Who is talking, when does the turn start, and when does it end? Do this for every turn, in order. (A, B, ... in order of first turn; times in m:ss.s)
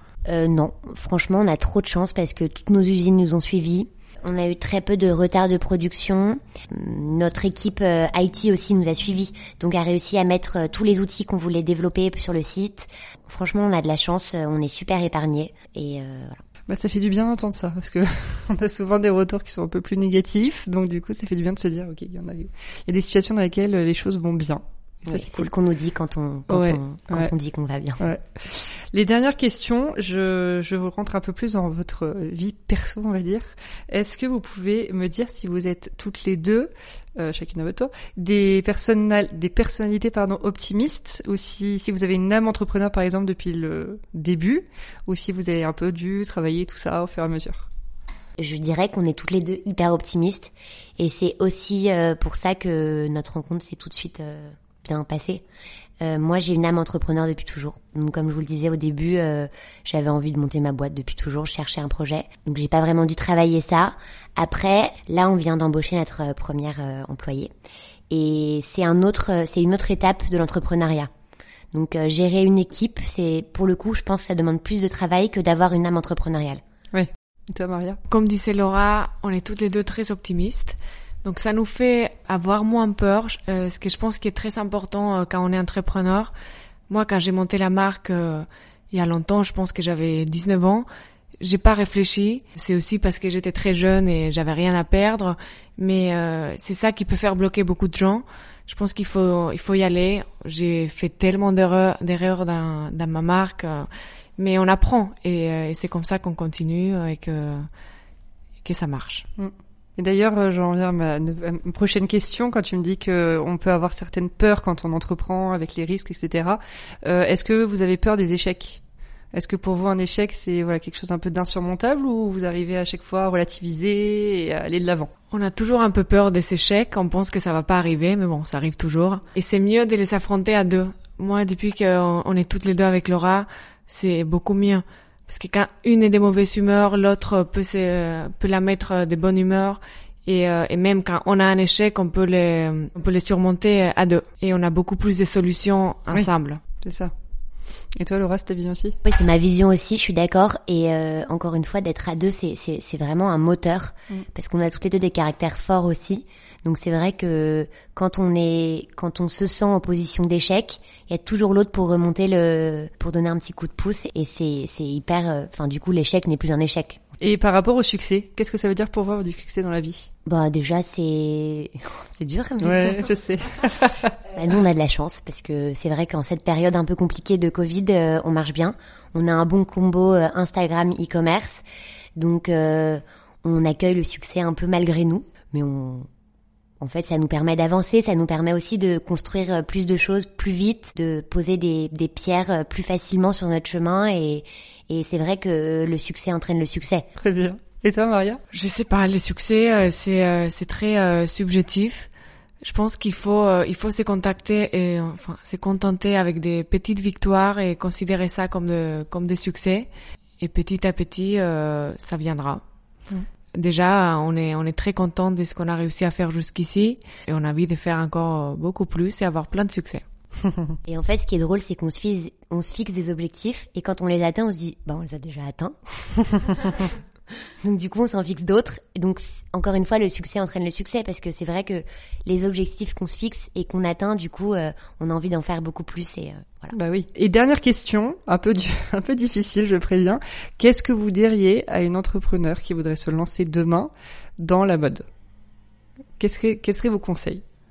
0:00.2-0:16.4 A
0:16.7-0:25.5 B
0:25.1-0:28.0 A
0:26.5-0:27.3 B
0:28.0-0:47.7 B
0:48.4-0:55.4 A
0:56.0-1:07.5 A
1:08.1-1:11.1 A
1:11.7-1:16.6 A
1:16.9-1:18.0 B
1:18.1-1:26.3 C
1:26.9-1:30.9 C
1:31.4-1:47.7 C
1:48.6-1:49.2 C
1:49.4-1:58.8 B
1:59.3-2:05.1 B
2:05.3-2:26.6 C
2:26.8-2:27.1 B
2:27.9-2:29.0 B
2:29.0-2:47.0 A
2:47.2-2:50.1 B
2:50.2-2:53.1 A
2:52.6-2:54.2 B
2:54.3-3:01.6 A
3:02.2-3:06.1 A
3:06.8-3:17.1 A
3:17.2-3:18.4 B
3:18.5-3:22.1 C
3:22.6-3:29.9 C
3:30.4-3:32.6 C
3:33.5-3:40.0 C
3:40.5-3:40.7 B
3:40.8-3:46.9 A
3:47.6-3:56.7 A
3:56.7-4:05.0 B
4:06.2-4:07.4 B